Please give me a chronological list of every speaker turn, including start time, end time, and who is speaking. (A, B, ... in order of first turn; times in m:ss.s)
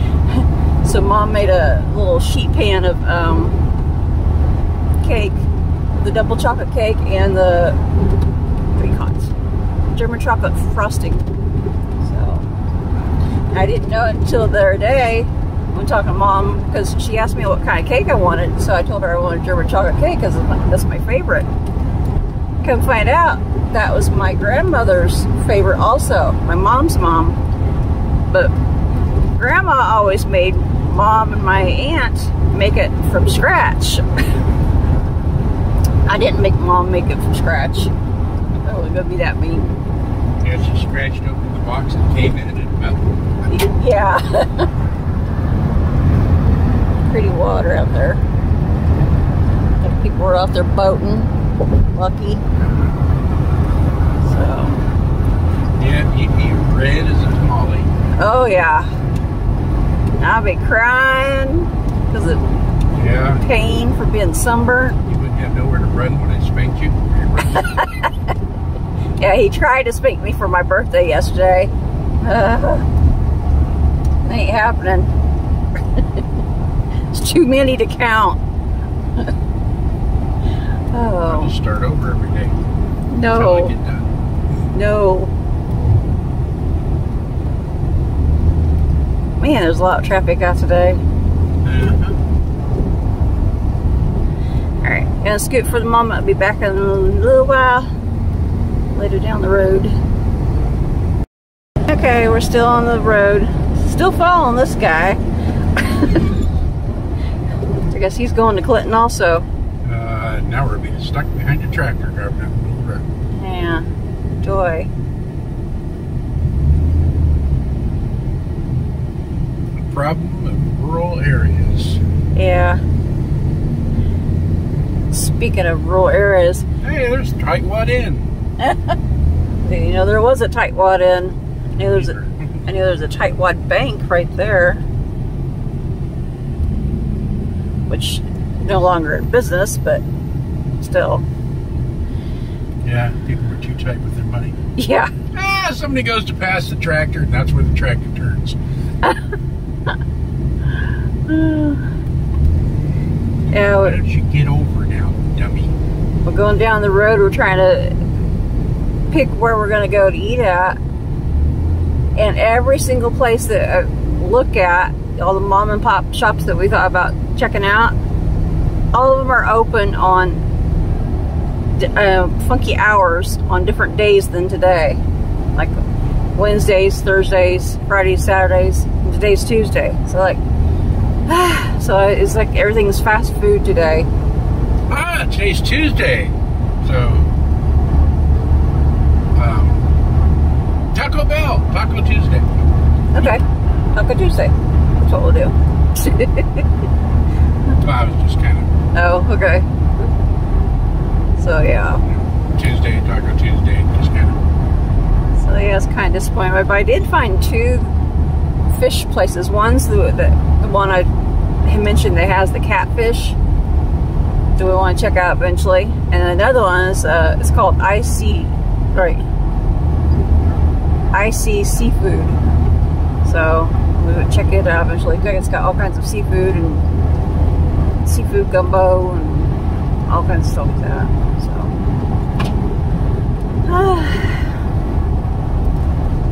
0:00.3-0:03.6 A
0:05.0-0:05.4 A
0:06.0-0:07.8 A
0:08.8-0:09.3 A
0:09.9-0:11.3 A
0:12.0-0:12.4 A
0:13.5-0:21.5 A
0:22.6-0:27.4 A
0:29.4-0:34.1 A
0:36.1-0:37.9 A
0:38.5-0:39.7 A
0:40.4-0:43.2 B
0:43.5-0:44.7 A
0:47.1-0:48.2 A
0:49.8-0:51.3 A
0:51.9-0:52.4 A
0:54.2-0:54.8 A
0:55.8-0:57.9 B
0:58.2-0:58.9 A
1:00.2-1:02.4 A
1:02.9-1:03.4 B
1:03.4-1:05.0 A
1:05.0-1:07.7 B
1:07.4-1:08.1 A
1:09.2-1:12.8 A
1:14.2-1:15.1 A
1:15.9-1:16.2 A
1:17.1-1:18.4 A
1:20.9-1:21.5 A
1:21.2-1:22.6 B
1:23.1-1:23.7 A
1:23.3-1:24.1 B
1:24.7-1:25.3 A
1:29.4-1:31.0 A
1:31.6-1:32.2 B
1:34.8-1:37.9 A
1:38.9-1:40.0 A
1:41.8-1:45.2 A
1:45.8-1:46.3 A
1:47.9-1:49.4 A
1:49.8-1:53.0 B
1:53.4-1:53.8 A
1:54.4-1:54.9 A
1:59.8-2:02.0 B
2:02.3-2:02.8 A
2:05.1-2:06.6 A
2:06.8-2:08.3 B
2:08.6-2:09.0 A
2:09.6-2:14.8 A
2:11.8-2:12.6 B
2:17.9-2:20.0 A
2:20.8-2:21.2 A
2:22.8-2:24.6 B
2:24.8-2:25.1 A
2:25.3-2:28.6 B
2:31.3-2:31.8 A
2:33.5-2:34.0 A
2:33.6-2:35.7 B
2:36.2-2:38.0 A
2:39.1-2:40.8 A
2:42.2-2:47.9 A
2:48.9-2:50.4 A
2:51.8-2:55.0 A
2:55.5-2:55.8 A
2:56.3-3:00.4 A
3:01.3-3:04.1 A
3:04.9-3:07.3 B
3:09.3-3:09.8 B
3:10.9-3:12.6 B
3:13.1-3:13.4 A
3:13.9-3:16.6 A
3:17.8-3:18.7 B
3:18.9-3:20.1 A
3:21.4-3:22.0 A
3:22.0-3:24.4 B
3:25.4-3:27.9 A
3:28.7-3:31.1 A
3:31.6-3:33.4 A
3:34.6-3:39.2 A
3:41.1-3:42.4 A
3:43.2-3:46.8 A
3:48.0-3:51.7 A
3:53.6-3:54.6 A